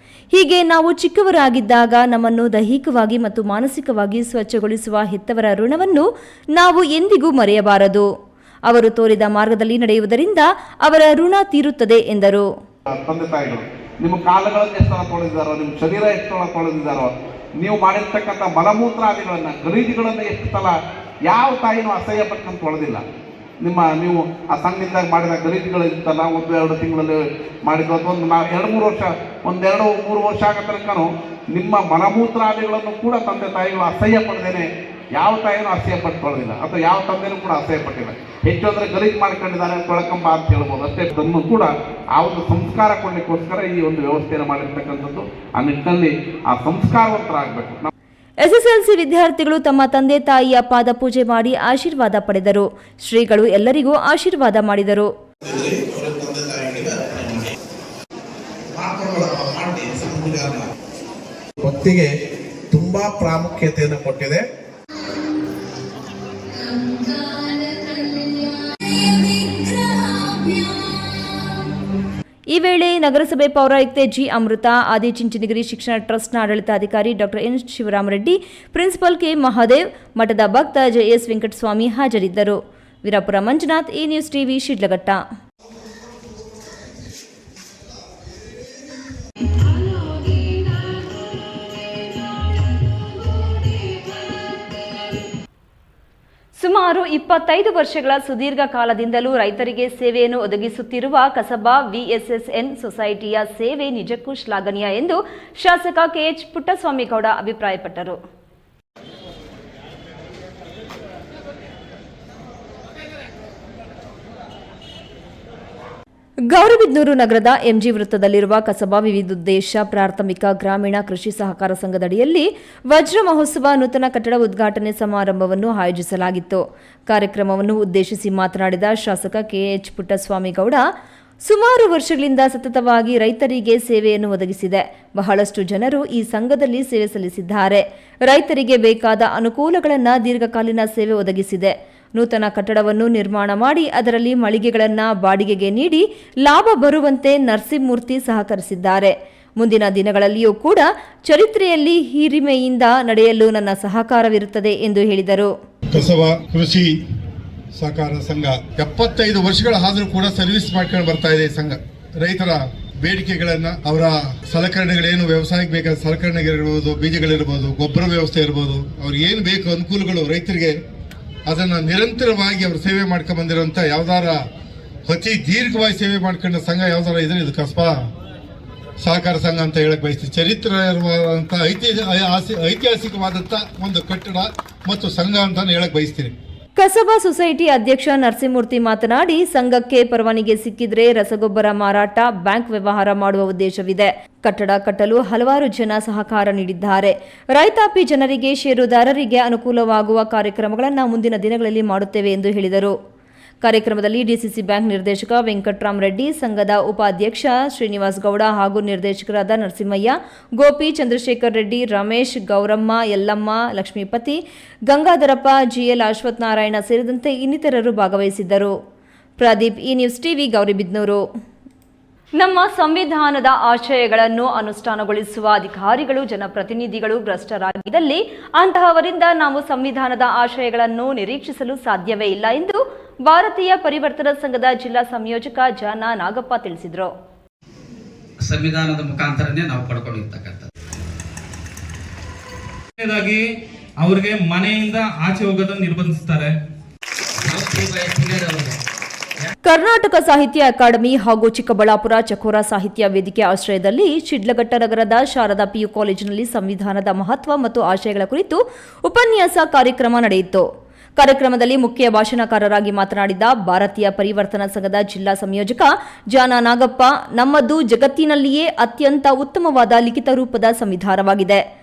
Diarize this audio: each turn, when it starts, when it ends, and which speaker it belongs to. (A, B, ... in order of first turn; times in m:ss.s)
0:00.3-0:08.0 A
0:08.7-0:12.4 A
0:12.9-0:23.0 B
0:23.6-0:47.9 B
0:48.4-0:55.1 A
0:55.4-0:57.5 B
0:58.7-1:00.6 B
1:01.6-1:02.1 B
1:02.7-1:04.4 B
1:12.5-1:25.2 A
1:36.6-1:48.2 A
1:56.5-2:10.8 A
2:11.4-2:35.5 A
2:35.9-2:37.0 C
2:37.7-2:50.8 C
2:51.5-2:54.4 C
2:55.1-2:58.1 C
2:59.0-3:06.3 C
3:06.8-3:22.9 A
3:23.6-3:38.7 A
3:39.4-3:41.2 A
3:42.4-3:57.1 A
3:58.4-4:00.7 D
4:03.0-4:03.4 E
4:04.0-4:06.5 E
4:07.4-4:08.8 D
4:09.6-4:20.6 A
4:21.2-4:31.6 A